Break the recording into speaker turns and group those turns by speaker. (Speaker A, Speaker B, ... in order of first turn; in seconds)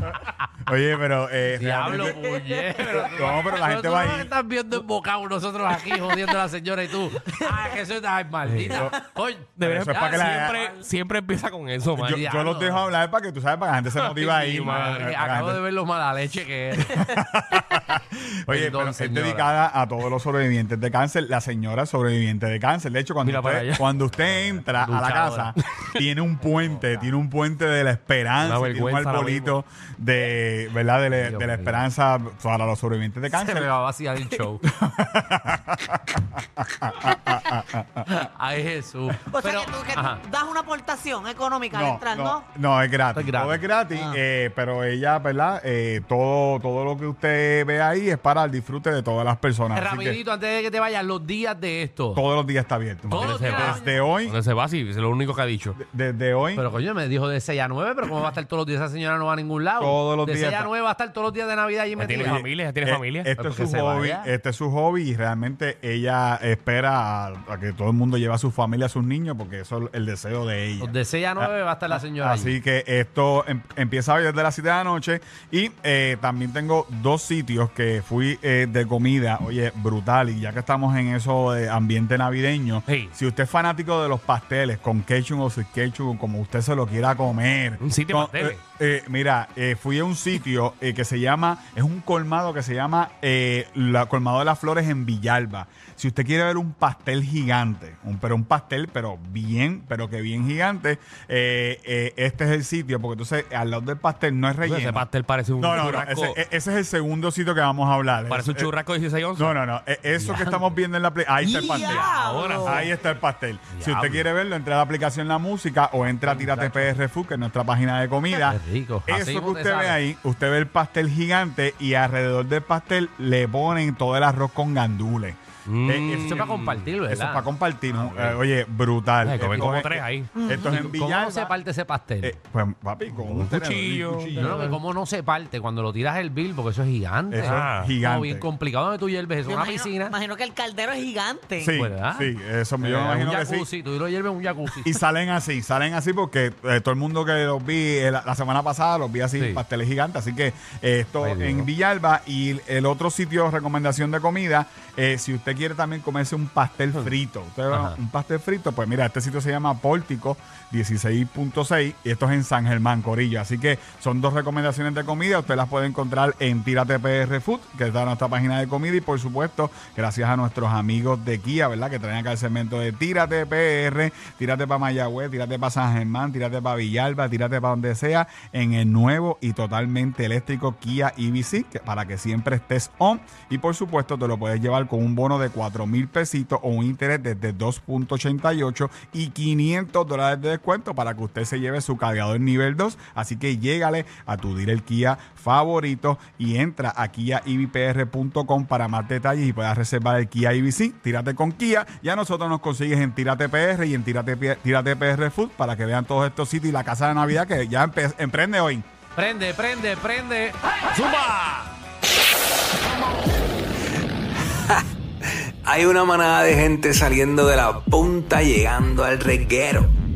Speaker A: 0.6-2.2, 2.8-4.3, 8.5-8.9, 9.6-10.7, 12.0-15.6, 16.8-33.7, 34.6-38.1, 41.7-50.2, 52.1-54.4, 55.8-56.7, 59.8-60.7, 62.2-105.1, 105.6-108.7, 109.3-131.6, 132.2-134.8, 137.3-138.5, 141.6-143.7, 144.8-208.8
Speaker B: 1.6-10.5, 12.0-12.9, 14.6-17.1, 18.5-19.6, 31.1-31.8, 33.3-34.6, 38.0-40.2, 43.1-43.7, 49.7-52.2, 53.1-54.0, 56.6-62.4, 63.4-64.3, 70.8-72.6, 110.1-110.8, 113.7-114.3, 116.2-117.0, 118.4-120.0, 126.1-128.4, 130.6-132.4, 134.3-140.2, 141.7-145.0, 149.4-149.6, 151.2-151.7, 157.7-158.0, 209.2-210.6
Speaker C: 9.6-12.2, 14.0-15.2, 23.2-25.6, 28.4-29.6, 53.1-55.8, 62.0-63.3, 82.9-83.1, 87.8-88.6, 104.6-106.4, 108.3-109.5, 111.7-112.9, 125.7-126.9, 129.2-130.3, 133.2-134.7, 137.4-137.9, 210.9-211.7
Speaker D: 39.3-42.4, 111.4-112.9, 130.4-130.8, 139.5-141.8
Speaker E: 215.6-219.9